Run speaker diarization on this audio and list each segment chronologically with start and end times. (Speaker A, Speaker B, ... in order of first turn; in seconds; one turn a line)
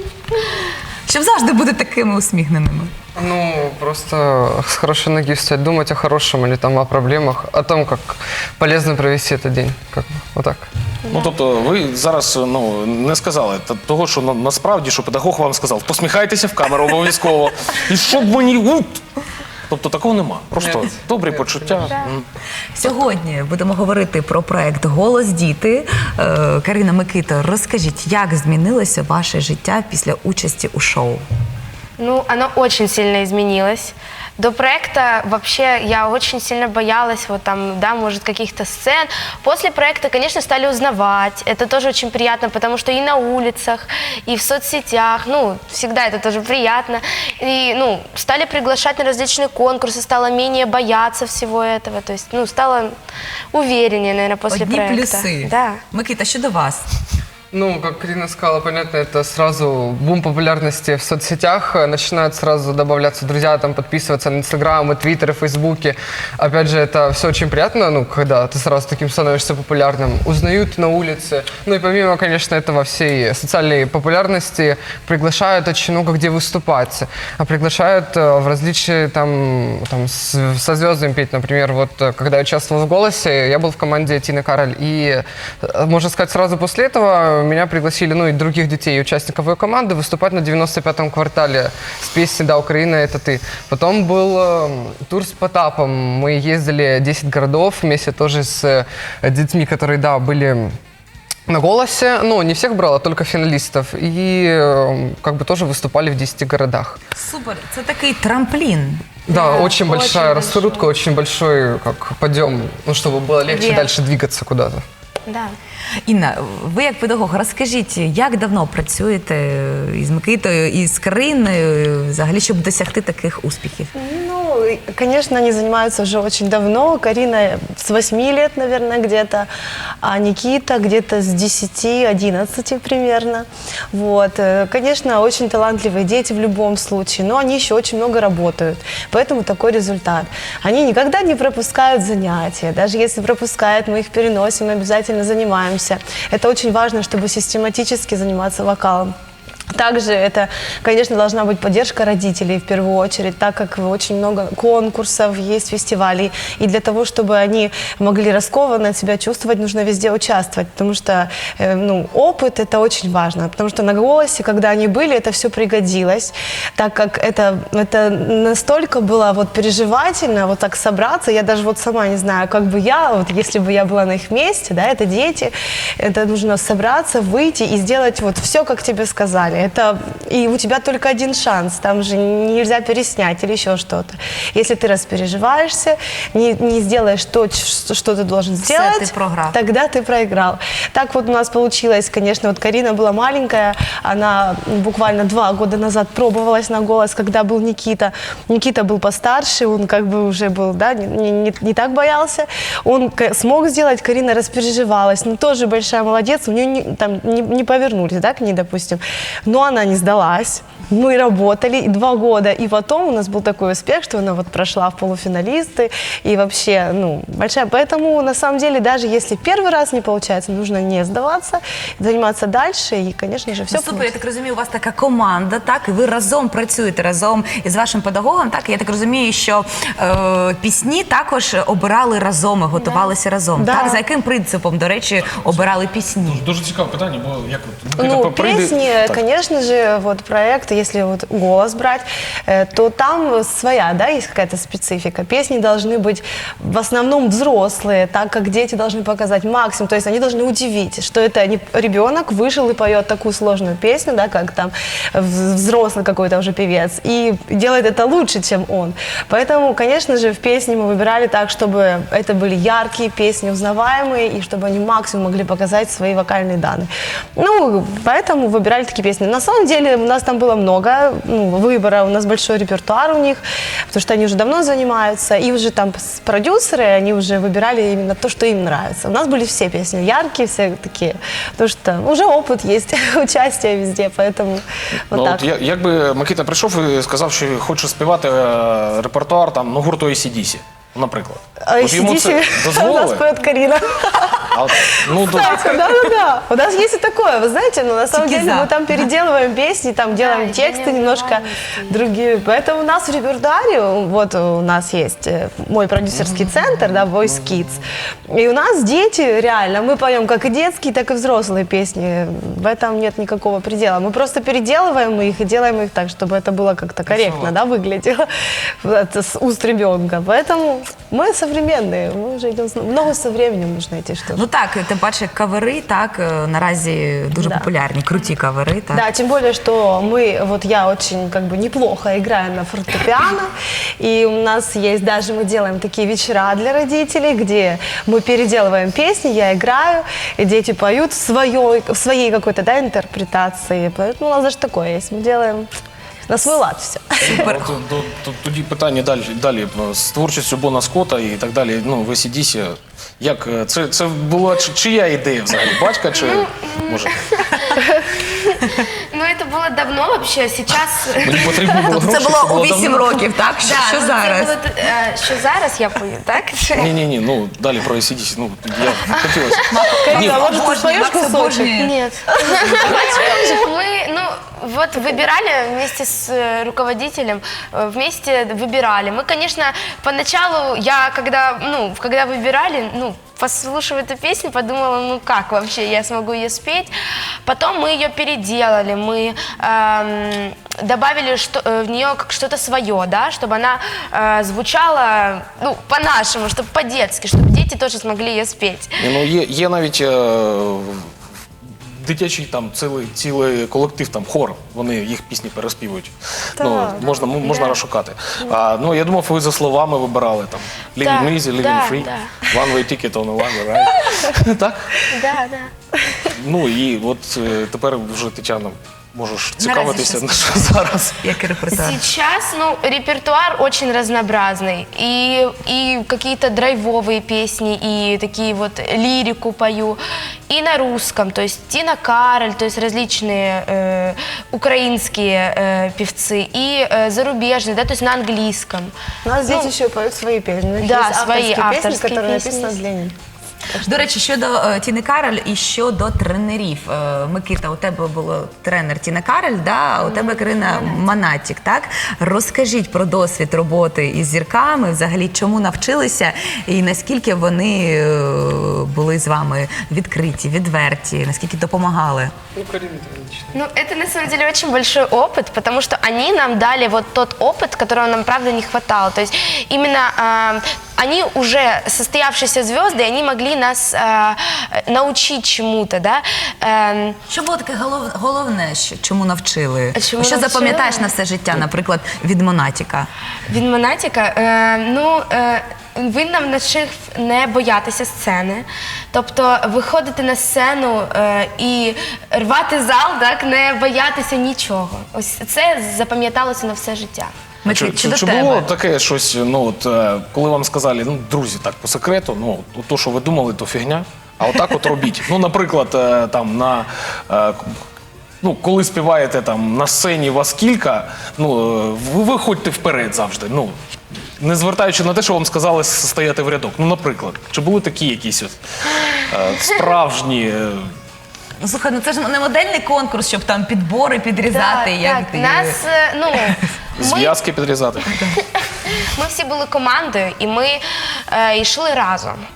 Speaker A: 1.1-2.9
Speaker B: 3.1-10.7
Speaker C: 11.1-19.0
Speaker C: 19.7-22.2
Speaker B: 20.6-22.0
Speaker A: 22.7-31.2
Speaker D: 32.0-52.9
Speaker D: 53.5-55.8
Speaker A: 54.5-56.9
Speaker B: 57.5-100.7
Speaker B: 101.5-107.0
Speaker A: 107.2-109.0
Speaker B: 109.3-114.8
Speaker D: 109.3-110.9
Speaker D: 113.5-113.9
Speaker D: 115.2-115.5
Speaker A: 116.0-123.9
Speaker E: 123.9-129.5
Speaker E: 130.0-149.1
Speaker E: 149.7-224.1
Speaker A: 188.6-189.6
Speaker A: 223.7-236.4
Speaker D: 232.7-233.1
Speaker E: 233.6-234.0
Speaker C: 235.3-239.2
Speaker E: 238.0-285.5
Speaker C: 285.1-293.3
Speaker E: 291.6-318.3
Speaker C: 294.5-296.0
Speaker A: 298.1-299.1
Speaker D: 300.1-302.1
Speaker C: 306.2-307.6
Speaker C: 317.2-317.5
Speaker E: 318.8-324.4
Speaker A: 324.3-329.1
Speaker E: 327.3-327.7
Speaker E: 328.9-345.7
Speaker E: 346.3-347.4
Speaker C: 347.2-357.2
Speaker A: 347.2-347.8
Speaker D: 356.1-361.9
Speaker C: 361.2-363.3
Speaker A: 361.9-364.5
Speaker D: 363.6-366.9
Speaker C: 366.7-370.5
Speaker D: 369.1-369.6
Speaker A: 369.7-371.9
Speaker E: 369.9-371.8
Speaker D: 371.8-386.9
Speaker E: 372.4-373.6
Speaker D: 387.4-399.1
Speaker C: 399.0-401.1
Speaker C: 401.9-414.9
Speaker E: 406.6-407.1
Speaker D: 407.4-407.8
Speaker D: 411.0-412.5
Speaker D: 415.1-415.7
Speaker C: 416.3-421.2
Speaker A: 419.6-422.0
Speaker D: 421.7-438.9
Speaker E: 439.2-443.1
Speaker D: 439.4-439.7
Speaker D: 440.8-442.8
Speaker A: 443.7-462.3
Speaker D: 450.0-451.0
Speaker B: 462.5-463.6
Speaker D: 463.5-477.2
Speaker A: 477.3-483.1
Speaker D: 479.9-481.1
Speaker D: 483.5-497.3
Speaker A: 497.6-498.7
Speaker C: 497.7-507.8
Speaker C: 508.4-513.7
Speaker C: 514.4-518.5
Speaker C: 519.1-520.9
Speaker A: 521.6-525.8
Speaker D: 524.5-527.4
Speaker C: 527.0-528.2
Speaker D: 528.9-532.4